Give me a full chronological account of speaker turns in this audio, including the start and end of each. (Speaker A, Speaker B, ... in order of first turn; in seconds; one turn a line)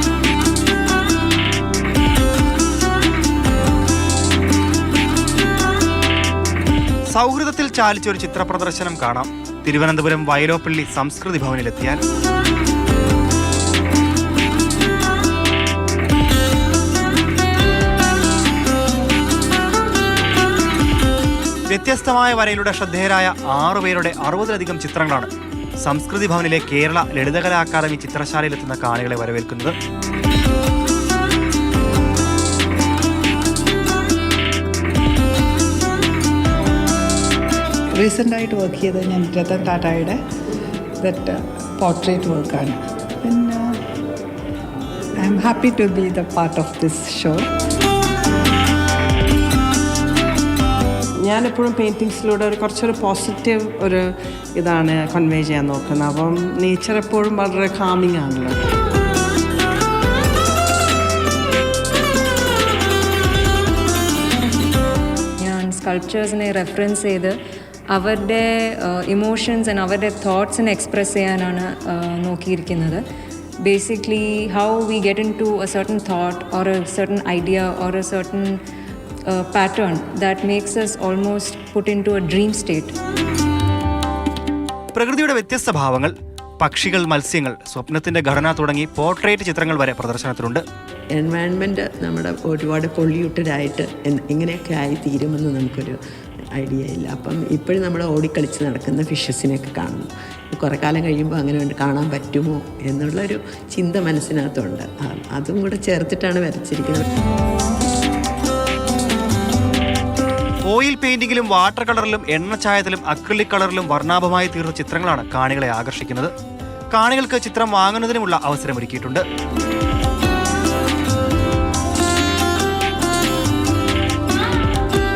Speaker A: 7.1-12.0
Speaker A: 21.7-25.3
Speaker A: 25.8-29.7
Speaker B: 37.9-40.2
Speaker B: 41.0-43.8
Speaker B: 45.2-47.5
Speaker C: 51.2-58.6
Speaker D: 65.4-67.4
Speaker D: 67.9-73.0
Speaker D: 73.6-78.6
Speaker D: 79.3-82.9
Speaker A: 84.9-90.6
Speaker E: 91.1-96.0
Speaker E: 96.5-107.0
Speaker A: 110.6-116.3
Speaker A: 116.9-119.2